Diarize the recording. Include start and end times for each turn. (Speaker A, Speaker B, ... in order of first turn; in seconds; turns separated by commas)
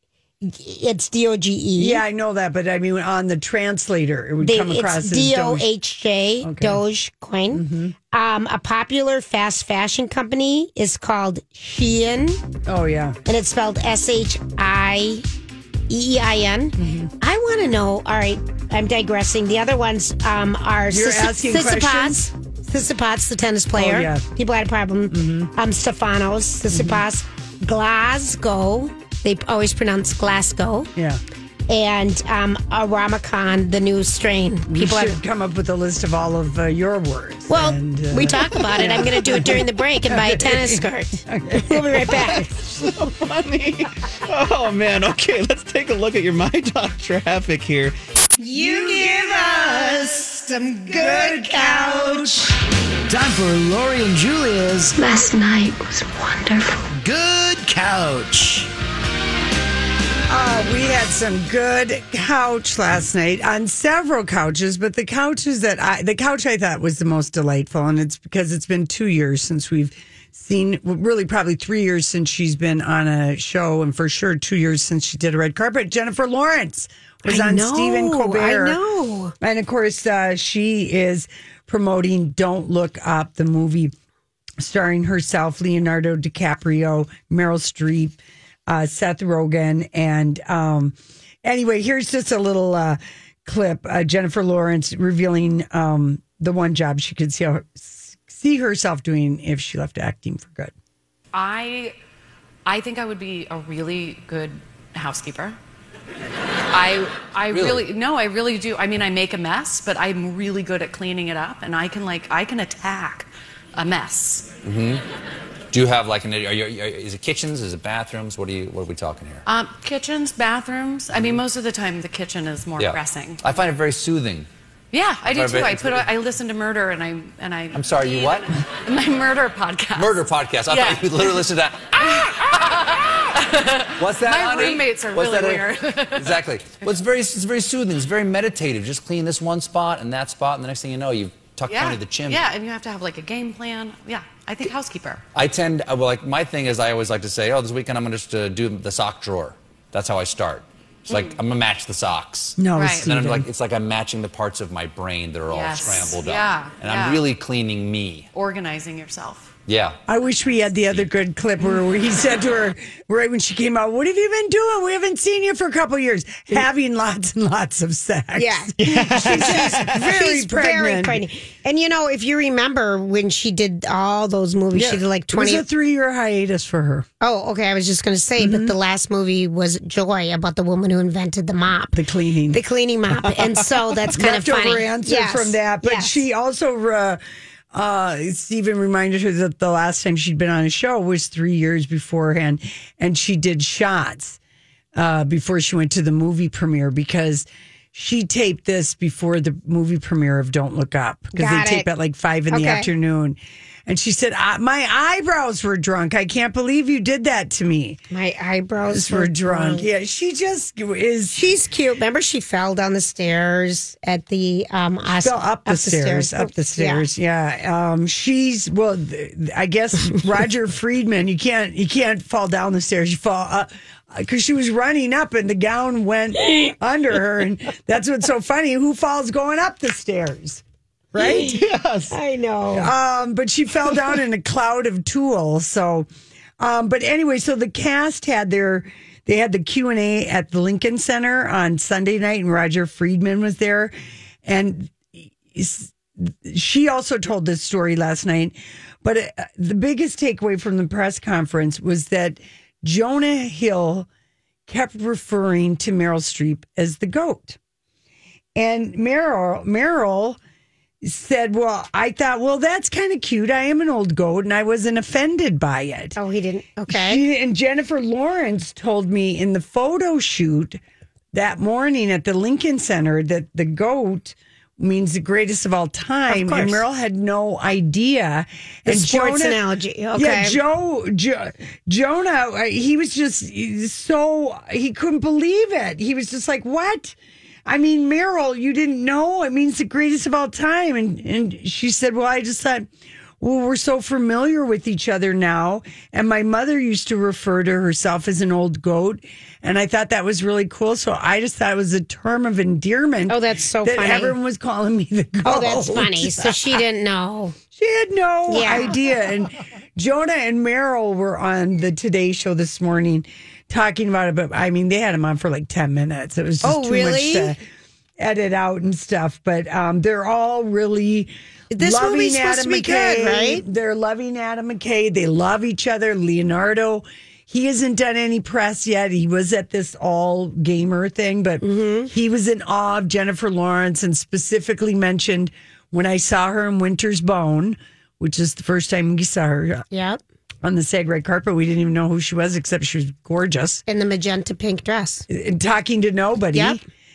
Speaker A: 0.4-2.0, Speaker B: 1.8-5.7, Speaker A: 4.4-12.4, Speaker B: 6.4-6.8, Speaker B: 7.5-7.9, Speaker B: 12.7-13.2, Speaker A: 13.2-15.2, Speaker A: 15.9-30.9, Speaker B: 16.8-17.1, Speaker B: 20.9-22.3, Speaker B: 23.7-24.2, Speaker B: 25.1-25.5, Speaker B: 26.7-27.0, Speaker A: 31.7-35.2, Speaker B: 34.7-42.5, Speaker A: 37.5-42.5, Speaker C: 42.4-47.9, Speaker A: 48.4-52.5, Speaker B: 48.5-52.5, Speaker D: 53.1-55.0, Speaker A: 55.0-56.8, Speaker D: 56.9-58.7, Speaker B: 60.3-78.8, Speaker A: 77.2-79.3, Speaker B: 79.4-83.9, Speaker B: 84.6-100.7, Speaker E: 101.3-101.9, Speaker E: 102.7-105.6, Speaker E: 106.7-114.5, Speaker F: 107.5-107.8, Speaker F: 114.6-115.0, Speaker F: 115.7-119.4, Speaker E: 119.5-123.4, Speaker F: 121.1-121.4, Speaker F: 122.8-124.5, Speaker E: 124.9-131.4, Speaker F: 125.3-126.1, Speaker F: 127.7-128.5, Speaker F: 129.9-132.3, Speaker E: 132.0-136.4, Speaker F: 134.0-142.4, Speaker E: 141.7-145.2, Speaker F: 145.3-158.3, Speaker E: 151.1-151.4, Speaker B: 152.6-153.5, Speaker E: 152.7-153.1, Speaker E: 155.5-157.2, Speaker E: 158.3-159.5, Speaker F: 159.7-160.0, Speaker B: 160.1-171.2, Speaker A: 168.4-175.6, Speaker C: 168.8-169.9, Speaker B: 174.7-177.1, Speaker A: 177.2-182.0, Speaker B: 178.4-178.7, Speaker B: 181.9-182.6, Speaker A: 182.5-186.2, Speaker B: 184.1-187.2, Speaker B: 187.7-194.4, Speaker B: 194.9-208.0, Speaker A: 201.3-201.9, Speaker A: 202.5-202.9, Speaker A: 208.1-209.9, Speaker B: 208.9-211.4, Speaker A: 211.3-217.0, Speaker B: 215.1-230.6, Speaker B: 231.1-231.6, Speaker A: 231.2-232.9, Speaker C: 231.4-232.1, Speaker B: 232.8-236.1, Speaker B: 236.6-243.9, Speaker B: 244.4-254.1, Speaker B: 254.7-257.6, Speaker B: 258.6-260.4, Speaker B: 261.0-266.2, Speaker A: 266.1-267.2, Speaker B: 266.9-270.8, Speaker B: 271.3-279.6, Speaker A: 276.3-276.8, Speaker A: 278.9-280.6, Speaker B: 280.1-287.1, Speaker B: 287.6-292.9, Speaker B: 293.4-306.8, Speaker A: 303.3-304.4, Speaker A: 305.4-307.6, Speaker B: 307.7-317.6, Speaker A: 308.5-308.9, Speaker A: 316.6-317.5, Speaker B: 318.2-339.8, Speaker A: 321.7-323.6, Speaker A: 331.6-332.1, Speaker A: 339.9-340.2, Speaker B: 340.6-343.8, Speaker A: 343.9-345.2, Speaker B: 345.3-346.8, Speaker A: 346.5-346.8